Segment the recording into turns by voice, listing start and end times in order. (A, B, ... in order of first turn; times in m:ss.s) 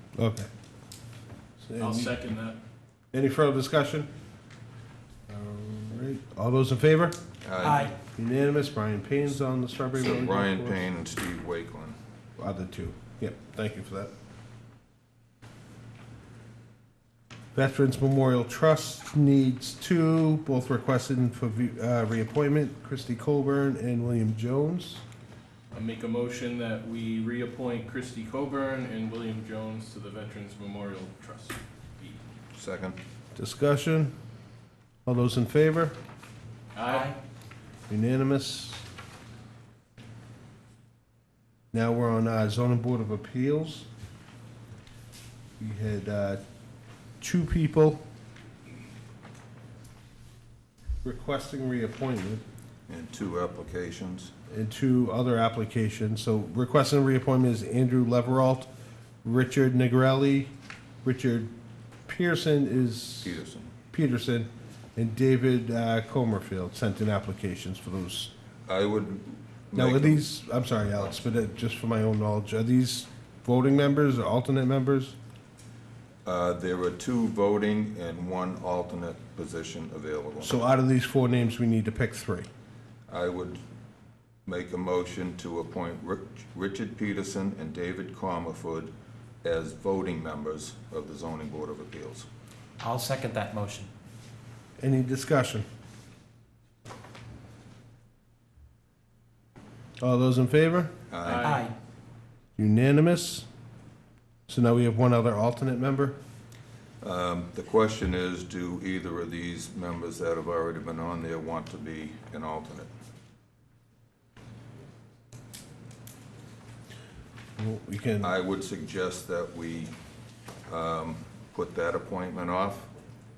0:00.2-0:00.5 A
0:01.6-0:02.2 A
0:01.8-0:02.6 B
0:03.1-0:04.1 A
0:05.3-0:07.2 A
0:07.4-0:07.9 C
0:07.6-0:08.0 D
0:08.2-0:10.9 A
0:09.9-0:12.0 C
0:12.4-0:14.1 A
0:17.5-0:25.0 A
0:25.7-0:32.2 B
0:32.5-0:33.0 C
0:33.4-0:34.1 A
0:35.1-0:36.0 A
0:36.7-0:37.2 B
0:36.8-0:37.2 D
0:37.9-0:38.8 A
0:41.7-0:43.9 A
0:45.6-0:46.4 A
0:47.2-0:48.0 A
0:51.0-0:52.4 A
0:52.9-0:54.3 C
0:54.5-0:58.7 A
0:59.2-1:00.5 A
1:01.0-1:01.5 A
1:02.1-1:03.4 A
1:03.2-1:03.7 C
1:03.9-1:08.3 A
1:08.7-1:10.3 C
1:09.8-1:15.2 A
1:16.2-1:20.6 C
1:20.4-1:22.5 A
1:23.1-1:23.6 C
1:24.5-1:28.9 C
1:29.4-1:32.3 C
1:32.8-1:33.9 D
1:34.8-1:35.7 A
1:40.0-1:40.9 A
1:41.1-1:41.6 C
1:41.2-1:41.7 B
1:41.4-1:41.7 D
1:42.6-1:43.5 A
1:44.5-1:46.2 A
1:47.0-1:52.9 C
1:57.6-1:58.3 A
1:58.2-1:59.9 C
2:00.7-2:02.9 C